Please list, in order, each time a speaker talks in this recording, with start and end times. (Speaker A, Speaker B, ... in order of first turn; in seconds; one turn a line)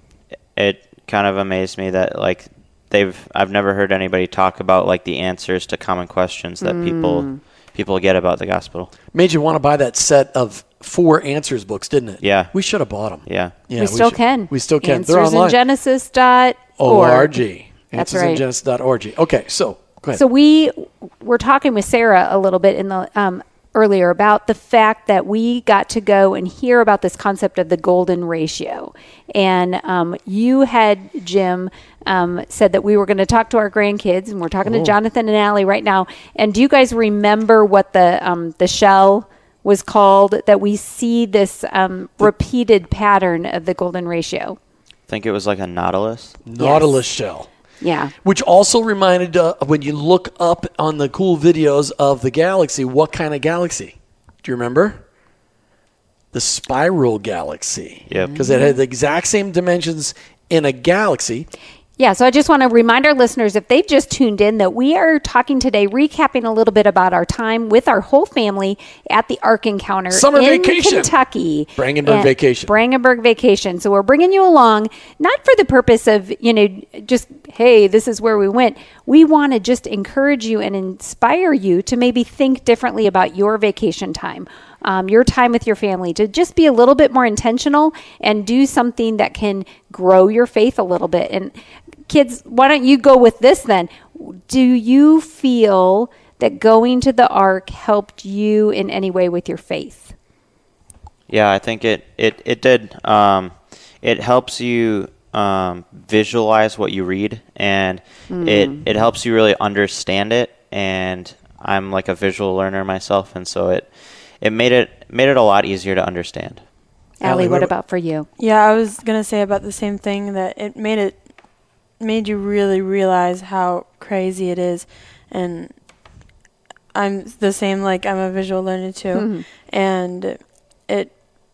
Speaker A: 0.6-8.9
Speaker B: 6.6-7.4
Speaker C: 9.1-15.6
Speaker A: 12.2-12.5
Speaker A: 13.3-13.6
Speaker B: 13.8-17.4
Speaker C: 16.8-20.2
Speaker B: 17.9-18.4
Speaker B: 20.1-44.6
Speaker C: 34.7-34.9
Speaker A: 45.1-46.4
Speaker C: 46.4-47.5
Speaker B: 46.6-47.0
Speaker B: 47.8-48.1
Speaker C: 48.2-55.0
Speaker C: 56.3-61.5
Speaker A: 58.1-58.4
Speaker B: 58.2-58.8
Speaker B: 62.0-91.5
Speaker C: 70.1-71.1
Speaker C: 71.8-72.7
Speaker B: 92.1-100.1
Speaker A: 101.3-116.6
Speaker B: 108.3-108.8
Speaker B: 117.2-118.3
Speaker C: 117.2-117.7
Speaker D: 118.4-121.3
Speaker D: 122.0-125.8
Speaker D: 126.9-131.2
Speaker B: 129.1-129.4